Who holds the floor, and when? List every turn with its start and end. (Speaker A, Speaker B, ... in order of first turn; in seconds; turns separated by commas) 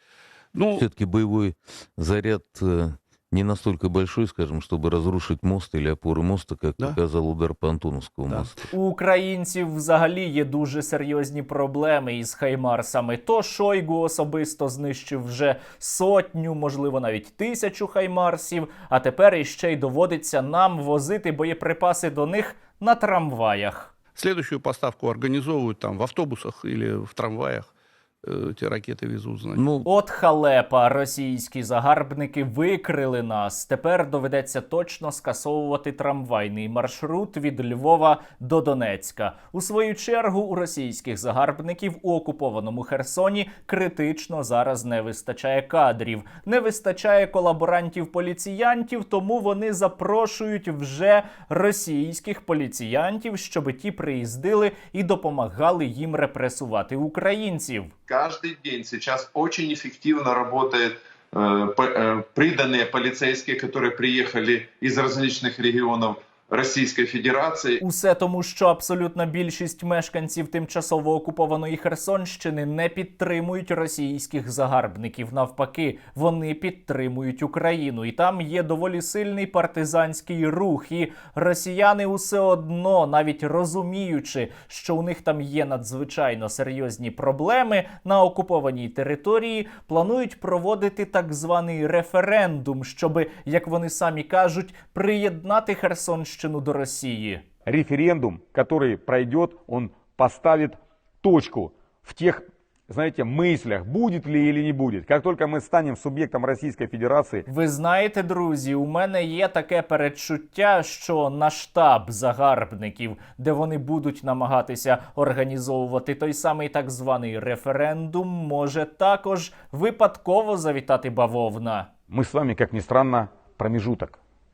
Speaker A: 0.5-0.8, Speaker B: 0.7-8.6, Speaker C: 8.7-23.9, Speaker A: 24.1-27.7, Speaker A: 28.2-29.6, Speaker B: 29.6-29.8, Speaker C: 29.8-57.9, Speaker D: 58.1-67.8, Speaker C: 67.8-97.4, Speaker E: 97.7-107.5, Speaker C: 107.5-121.9, Speaker E: 122.1-124.2